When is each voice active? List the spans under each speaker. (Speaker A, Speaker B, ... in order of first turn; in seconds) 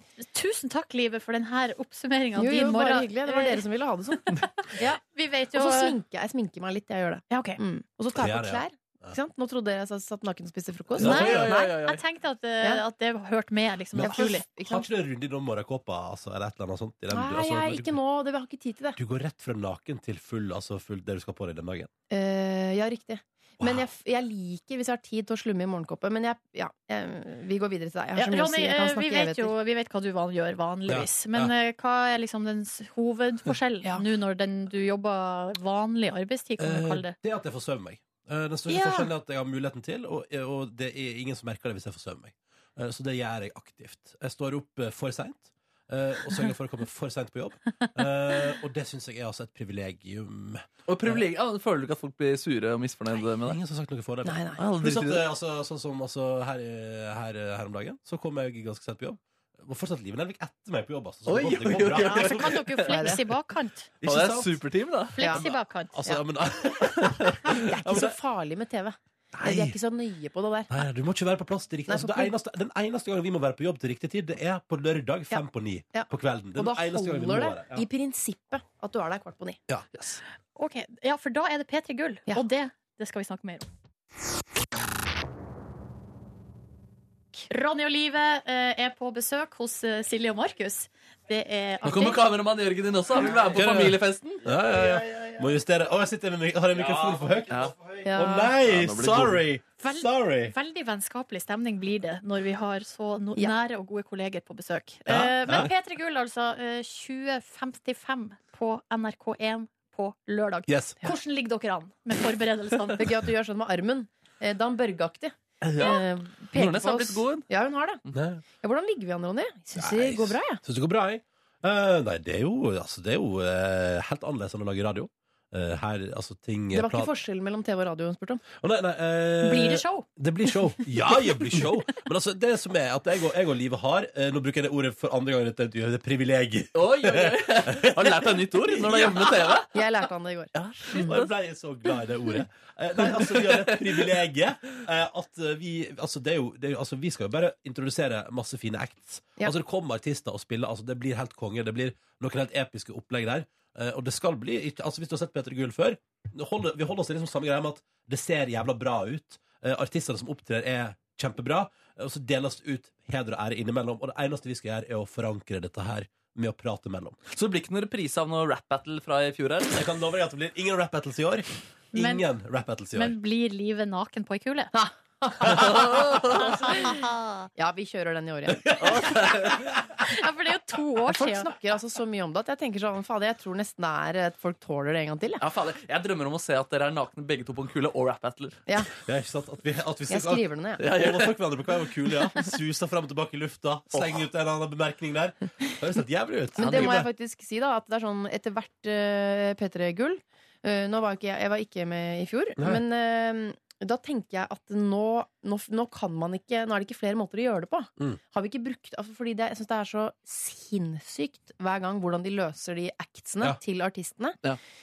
Speaker A: 0.2-3.6, 4.2-6.0, 7.3-7.6, 11.0-14.4, 28.1-37.1, 38.7-39.1, 61.9-63.9, 65.2-66.0, 80.5-83.7, 87.4-92.2, 99.8-113.1, 129.4-130.1, 171.9-172.2, 172.9-174.7, 176.4-177.5, 180.1-181.5
Speaker B: 2.4-4.2, 5.5-11.8, 14.0-14.9, 17.1-19.0, 22.1-29.5, 54.2-54.6, 62.9-63.2, 67.5-70.7, 71.9-72.3, 75.3-79.6, 98.0-98.5, 113.0-120.6, 126.7-128.4, 139.7-140.5, 174.7-176.4, 177.6-178.8, 181.1-185.4, 190.1-190.8, 196.6-214.4
Speaker C: 8.1-9.2, 11.0-11.6, 14.0-18.0, 18.9-21.9, 30.9-31.5, 36.6-51.2, 53.4-62.6, 64.0-64.6, 65.4-68.1, 69.3-69.8, 70.7-77.8, 79.7-80.0, 93.5-100.5, 105.1-105.7, 110.7-111.0, 118.1-118.4, 119.8-127.1, 128.5-138.4, 141.0-167.2, 169.7-173.1, 178.7-179.5, 189.0-197.1
Speaker D: 11.0-12.0, 50.9-53.6, 54.5-55.2, 61.3-63.1, 64.0-65.3, 67.2-67.5, 91.8-94.5, 97.0-97.8, 98.6-99.4, 115.6-117.5, 136.7-139.8, 140.5-141.3, 143.0-144.1, 167.3-169.8, 175.5-176.4, 178.8-179.7, 185.4-188.6, 190.8-191.4, 193.9-194.2, 196.6-197.1